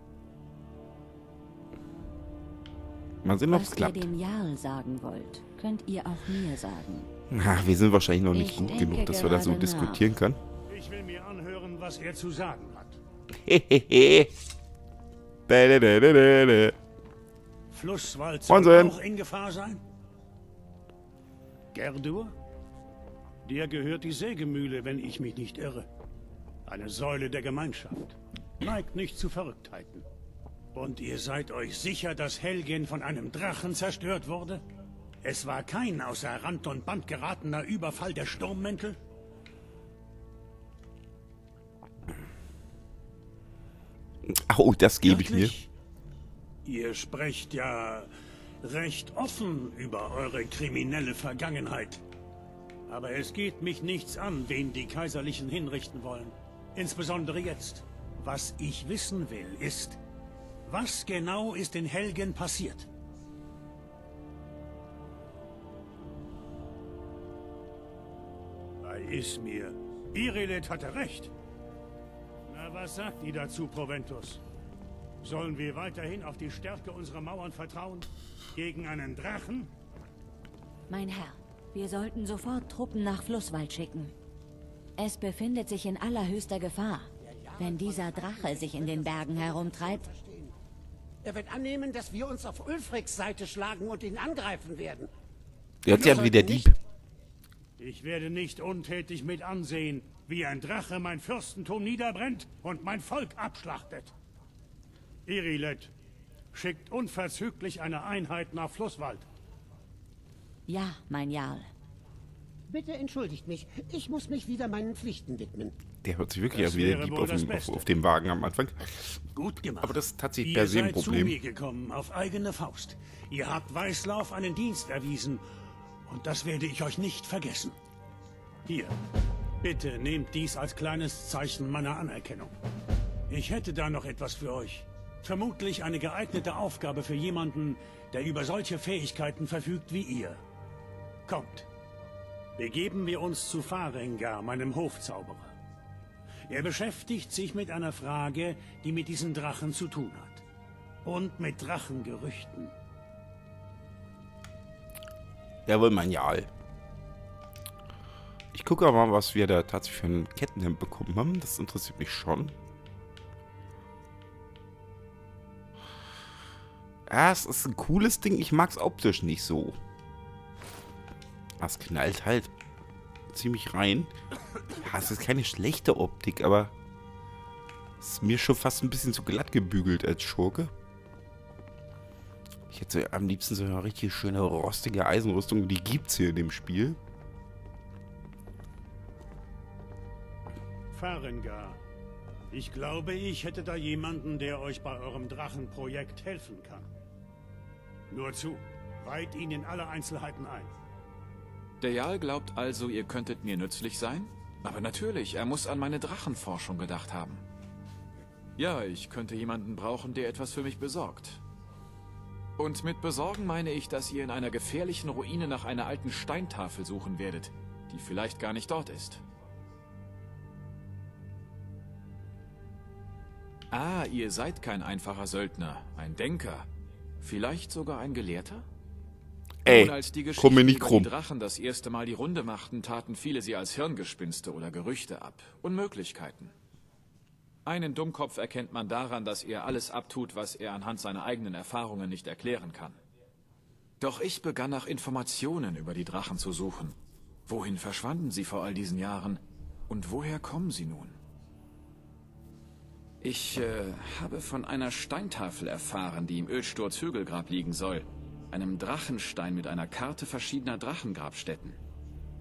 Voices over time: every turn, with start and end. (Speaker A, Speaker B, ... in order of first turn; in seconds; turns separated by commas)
Speaker A: 3.2-4.1, Speaker B: 3.5-7.1, Speaker A: 7.3-10.4, Speaker B: 8.3-10.1, Speaker C: 10.7-13.0, Speaker A: 13.3-14.3, Speaker A: 15.5-16.8, Speaker C: 17.7-19.8, Speaker A: 18.5-18.9, Speaker C: 21.7-22.3, Speaker C: 23.4-25.9, Speaker C: 26.6-30.1, Speaker C: 30.7-34.6, Speaker C: 35.2-39.0, Speaker A: 44.2-45.6, Speaker C: 45.0-45.7, Speaker C: 46.6-48.1, Speaker C: 48.6-52.0, Speaker C: 52.9-60.0, Speaker C: 60.6-62.9, Speaker C: 68.8-71.3, Speaker C: 72.5-74.4, Speaker C: 75.2-79.7, Speaker B: 80.9-84.1, Speaker B: 85.0-90.1, Speaker D: 87.2-90.5, Speaker D: 91.2-95.1, Speaker A: 95.8-96.8, Speaker D: 95.8-96.7, Speaker C: 97.8-104.1, Speaker C: 105.2-105.9, Speaker C: 106.5-109.3, Speaker B: 110.7-111.7, Speaker D: 112.7-115.8, Speaker A: 116.0-119.2, Speaker C: 116.5-117.9, Speaker C: 119.3-125.4, Speaker A: 119.8-121.4, Speaker C: 126.1-127.8, Speaker C: 128.7-128.9, Speaker C: 129.6-132.5, Speaker C: 133.3-140.4, Speaker C: 141.3-141.7, Speaker C: 142.6-145.5, Speaker C: 146.5-150.4, Speaker C: 151.0-152.7, Speaker A: 155.7-156.5, Speaker A: 158.5-162.6, Speaker A: 167.1-169.8, Speaker A: 171.6-172.5, Speaker A: 173.3-174.1, Speaker A: 174.8-176.7, Speaker A: 178.0-180.7, Speaker A: 182.7-187.0, Speaker C: 190.9-191.8, Speaker C: 192.5-196.9, Speaker C: 198.1-200.7, Speaker E: 201.8-207.4, Speaker E: 208.6-211.4, Speaker E: 212.6-219.2, Speaker E: 223.7-226.7, Speaker E: 227.2-228.7, Speaker A: 229.6-231.1, Speaker E: 229.6-236.5, Speaker E: 237.7-243.0, Speaker E: 244.0-251.2, Speaker E: 253.2-261.8